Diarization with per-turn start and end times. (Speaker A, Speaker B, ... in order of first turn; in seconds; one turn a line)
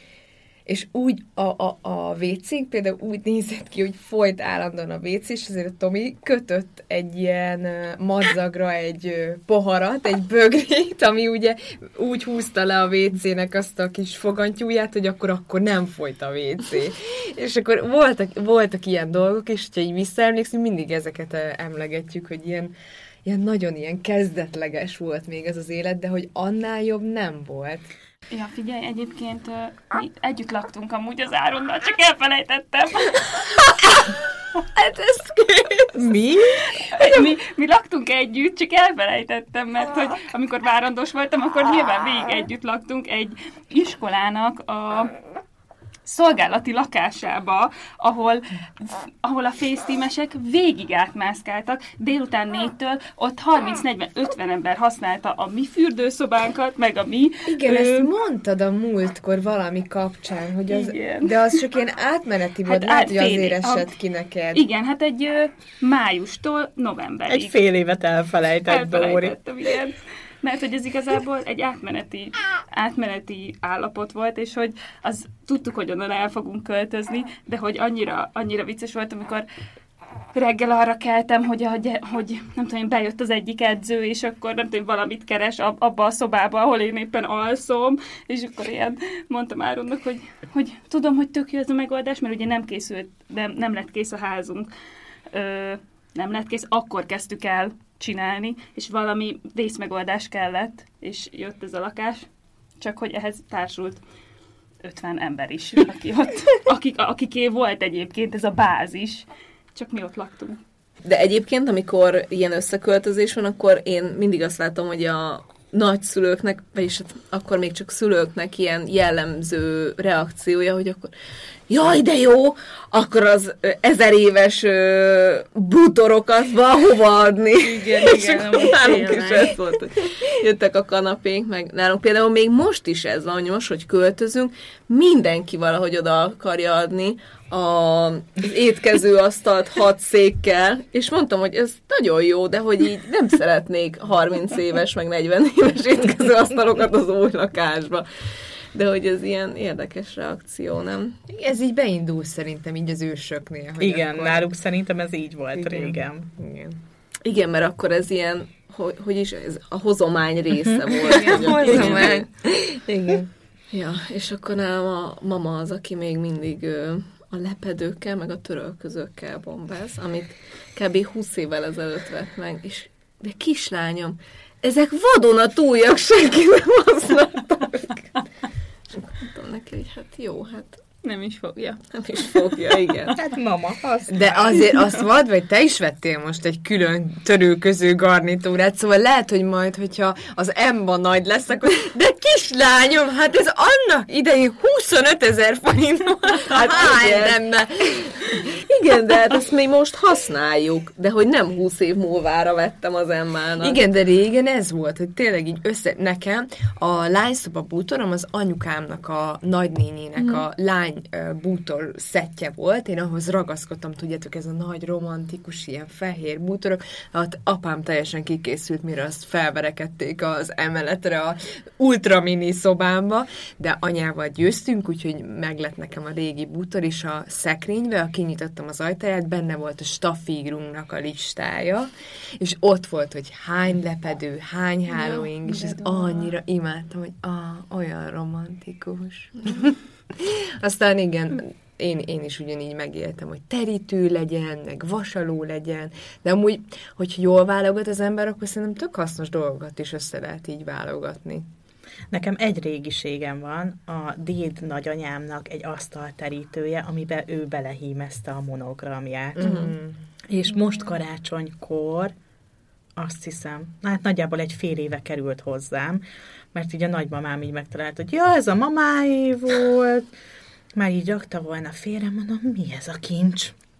Speaker A: 0.7-22.7
Speaker A: 23.2-27.9
Speaker B: 28.3-33.7
Speaker A: 34.8-36.1
Speaker C: 36.0-36.6
Speaker B: 36.9-45.1
Speaker B: 46.0-58.1
Speaker A: 57.5-64.6
Speaker B: 60.7-61.4
Speaker B: 62.6-63.9
Speaker B: 64.5-67.5
Speaker C: 67.3-69.3
Speaker B: 68.7-79.5
Speaker B: 80.3-94.7
Speaker B: 95.3-102.3
Speaker B: 102.8-104.0
Speaker B: 104.8-110.6
Speaker D: 111.0-121.1
Speaker D: 121.7-151.2
Speaker B: 127.6-129.6
Speaker A: 128.1-128.7
Speaker A: 151.3-154.5
Speaker C: 153.8-156.3
Speaker A: 155.5-156.8
Speaker D: 157.2-162.2
Speaker B: 161.2-161.9
Speaker A: 161.2-163.3
Speaker D: 163.7-178.1
Speaker D: 178.9-180.8
Speaker B: 181.0-181.9
Speaker D: 181.9-183.2
Speaker C: 183.1-184.3
Speaker A: 184.1-198.4
Speaker D: 196.5-197.4
Speaker D: 198.4-203.8
Speaker A: 203.6-251.5
Speaker D: 210.2-210.4
Speaker B: 234.9-236.3
Speaker C: 252.1-259.7
Speaker A: 259.4-260.0
Speaker C: 260.3-262.1
Speaker C: 262.9-270.1
Speaker C: 270.8-273.5